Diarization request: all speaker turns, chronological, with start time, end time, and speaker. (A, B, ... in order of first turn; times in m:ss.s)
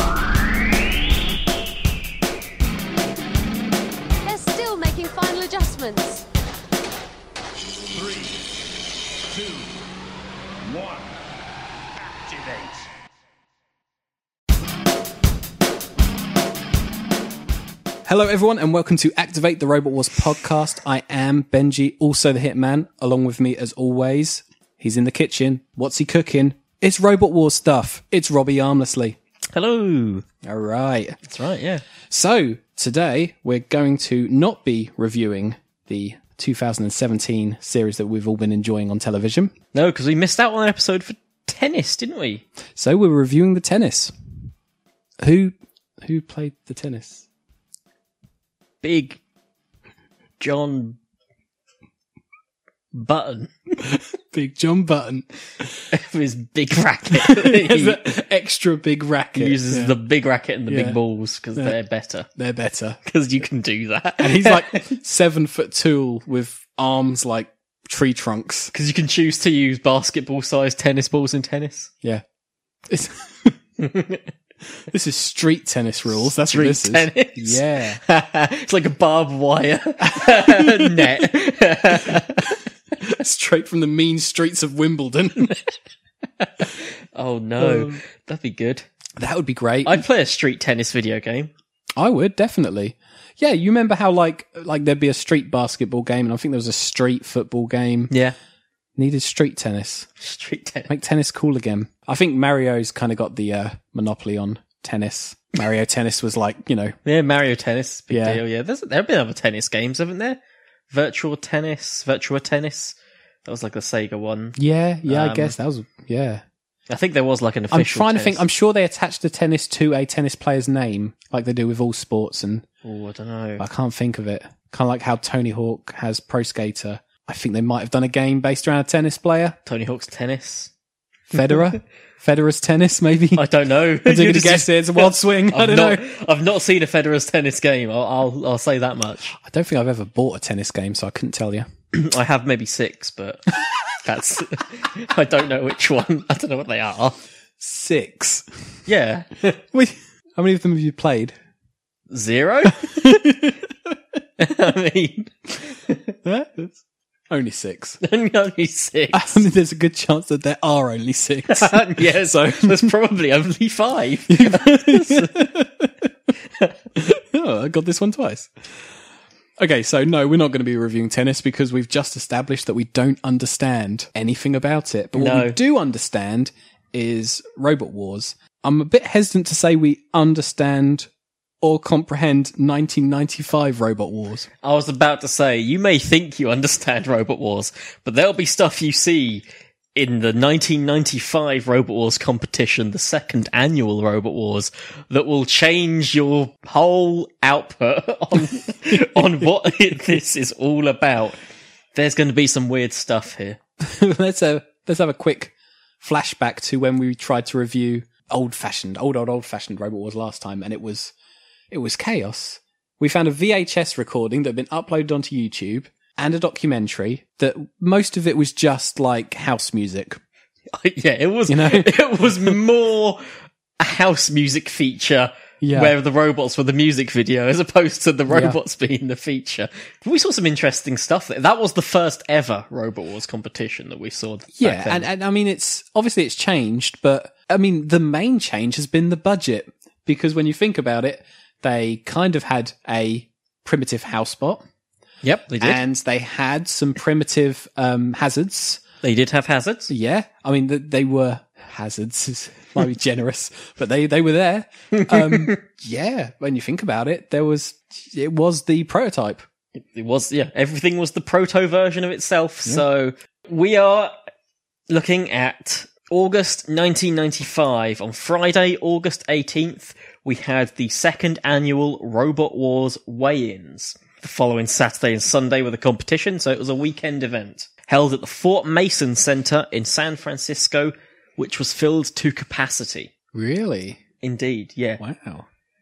0:04.2-0:06.2 A
0:07.9-0:08.6 B
0:09.3-0:09.8 B
0:10.6-0:11.1 B
0:12.0-0:12.9 B
0:18.0-0:29.2 C
0:29.5-0:30.2 D
0:30.4-0:31.2 C
0:31.2-0:31.8 D
0:32.1-0:39.5 C
0:39.7-0:42.4 D
0:42.8-0:44.1 C
0:45.2-0:47.2 C
0:48.8-0:49.2 D
0:50.4-0:51.0 D
0:52.9-0:53.5 D
0:53.8-0:55.8 C
0:55.9-0:58.0 D
0:57.1-1:00.0 C
0:59.3-1:02.3 D
1:00.7-1:01.0 C
1:02.4-1:03.0 C
1:03.0-1:04.9 D
1:04.2-1:08.7 C
1:08.7-1:11.9 D
1:12.9-1:13.6 C
1:13.8-1:14.2 D
1:14.9-1:18.0 C
1:16.3-1:22.6 D
1:20.0-1:21.2 C
1:21.9-1:25.5 C
1:26.4-1:28.8 D
1:27.6-1:28.0 C
1:29.2-1:30.0 C
1:29.8-1:31.5 D
1:32.0-1:38.1 C
1:38.1-1:38.3 D
1:39.0-1:40.1 C
1:40.2-1:40.9 D
1:40.9-1:47.0 C
1:47.0-1:50.4 D
1:48.1-1:48.4 C
1:50.9-1:55.5 D
1:54.6-1:56.4 C
1:56.9-1:58.4 D
1:57.7-2:02.6 C
2:02.8-2:03.6 D
2:03.6-2:09.6 C
2:09.6-2:10.7 D
2:11.3-2:13.4 C
2:13.4-2:19.4 D
2:14.0-2:16.0 C
2:19.4-2:21.6 C
2:21.9-2:27.2 D
2:27.6-2:28.4 C
2:28.9-2:29.6 D
2:29.7-2:31.3 C
2:32.1-2:33.2 D
2:32.7-2:33.6 C
2:34.4-2:36.1 D
2:36.2-2:36.8 C
2:37.3-2:38.0 C
2:38.0-2:39.5 D
2:39.1-2:42.9 C
2:41.5-2:45.5 D
2:44.3-2:45.9 C
2:46.9-2:48.5 C
2:49.6-3:01.1 C
2:55.1-2:55.6 D
3:01.6-3:04.5 C
3:04.6-3:21.4 D
3:21.9-3:23.6 D
3:23.8-3:31.1 C
3:31.7-3:40.2 C
3:40.7-3:43.2 D
3:41.5-3:42.6 C
3:43.8-3:55.1 D
3:45.6-3:45.9 C
3:48.3-3:48.6 C
3:54.6-4:04.6 C
4:05.2-4:05.8 D
4:05.6-4:08.8 C
4:09.0-4:09.9 D
4:09.9-4:19.4 C
4:14.9-4:15.6 D
4:19.8-4:24.1 D
4:24.9-4:43.1 D
4:43.3-4:44.0 C
4:44.2-4:45.0 D
4:45.0-4:45.4 C